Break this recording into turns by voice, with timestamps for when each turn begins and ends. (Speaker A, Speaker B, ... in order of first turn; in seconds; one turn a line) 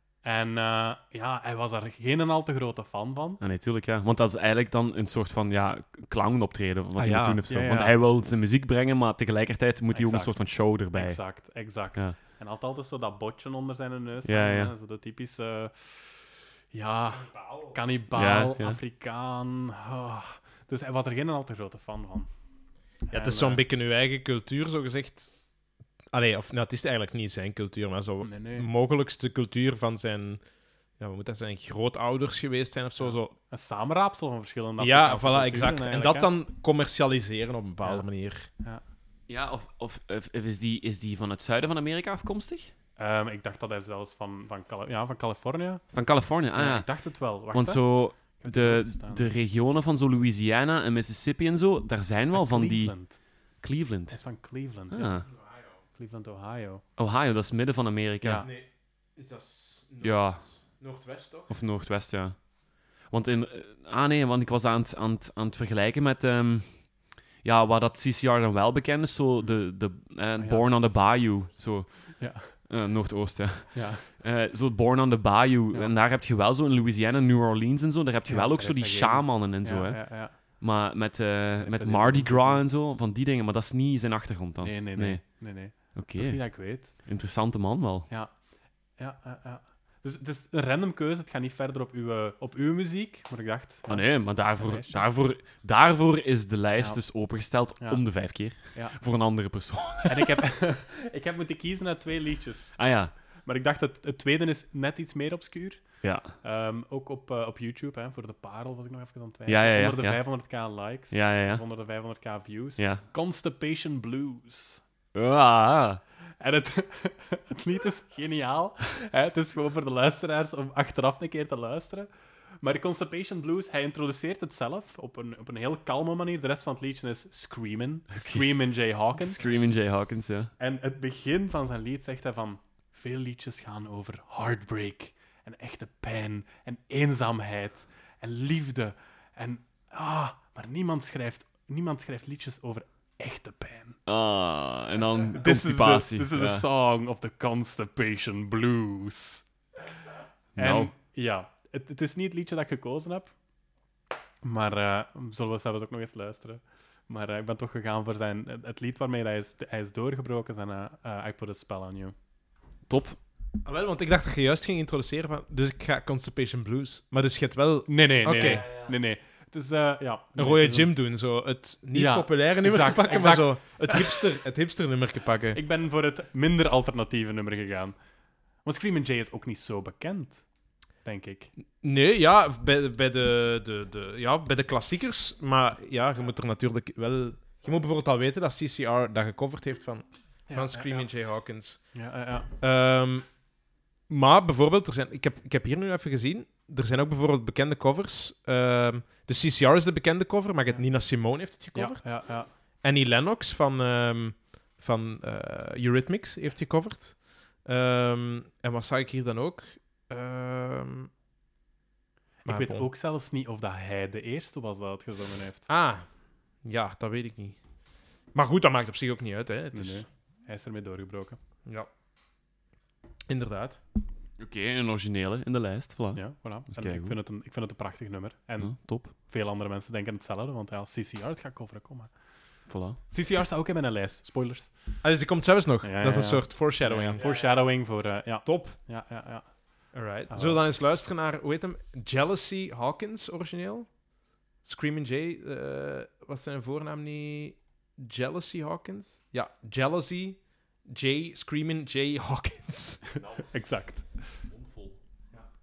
Speaker A: 0.2-3.4
Speaker B: 3.4-11.2
Speaker C: 7.0-7.4
Speaker A: 7.5-8.0
Speaker A: 9.9-22.3
Speaker B: 14.2-14.7
Speaker C: 17.1-17.7
Speaker B: 18.1-18.8
Speaker A: 23.1-23.6
Speaker C: 23.1-25.4
Speaker C: 26.1-30.4
Speaker A: 28.2-28.7
Speaker C: 31.0-33.3
Speaker A: 33.0-36.3
Speaker C: 34.8-38.5
Speaker A: 37.8-38.1
Speaker B: 39.3-42.7
Speaker A: 43.0-46.0
Speaker B: 45.9-54.2
Speaker A: 46.5-49.3
Speaker A: 52.3-53.2
Speaker A: 54.1-55.4
Speaker B: 54.9-55.3
Speaker C: 55.4-55.8
Speaker A: 56.0-56.8
Speaker B: 57.0-58.5
Speaker A: 58.2-58.5
Speaker C: 58.4-61.5
Speaker B: 60.0-60.5
Speaker B: 61.5-62.5
Speaker B: 63.0-88.1
Speaker A: 70.4-70.7
Speaker A: 72.2-72.5
Speaker A: 73.7-74.1
Speaker A: 78.3-80.6
Speaker A: 81.6-82.7
Speaker A: 84.6-87.0
Speaker A: 88.1-88.3
Speaker A: 89.0-95.0
Speaker B: 93.9-100.4
Speaker A: 96.8-99.0
Speaker A: 100.0-114.8
Speaker B: 102.8-103.2
Speaker B: 106.0-106.3
Speaker B: 109.5-110.2
Speaker B: 111.1-111.6
Speaker B: 112.8-113.0
Speaker B: 115.1-116.0
Speaker A: 116.4-122.1
Speaker A: 122.6-129.5
Speaker B: 128.1-128.5
Speaker B: 129.0-130.5
Speaker A: 130.6-144.0
Speaker B: 144.1-146.7
Speaker A: 145.3-149.5
Speaker B: 150.6-150.9
Speaker A: 150.6-153.3
Speaker A: 154.4-162.1
Speaker B: 162.9-163.2
Speaker C: 163.7-168.7
Speaker A: 167.9-171.0
Speaker B: 168.3-168.9
Speaker C: 170.4-175.6
Speaker A: 171.9-174.2
Speaker A: 175.5-178.0
Speaker A: 178.7-180.4
Speaker A: 181.0-181.5
Speaker C: 181.8-192.0
Speaker A: 190.5-191.1
Speaker A: 191.9-192.5
Speaker C: 192.6-193.3
Speaker C: 194.1-211.1
Speaker A: 201.7-202.5
Speaker A: 212.4-215.7
Speaker C: 212.5-212.9
Speaker C: 215.7-216.1
Speaker C: 216.6-217.6
Speaker C: 218.3-220.0
Speaker A: 219.7-221.4
Speaker C: 223.3-223.8
Speaker B: 224.4-227.2
Speaker A: 226.2-232.1
Speaker B: 228.6-229.1
Speaker B: 232.7-233.0
Speaker A: 233.1-235.0
Speaker C: 235.0-237.6
Speaker A: 235.8-240.6
Speaker C: 238.4-238.8
Speaker C: 239.9-244.0
Speaker C: 244.6-253.2
Speaker A: 253.4-254.4
Speaker B: 254.5-254.9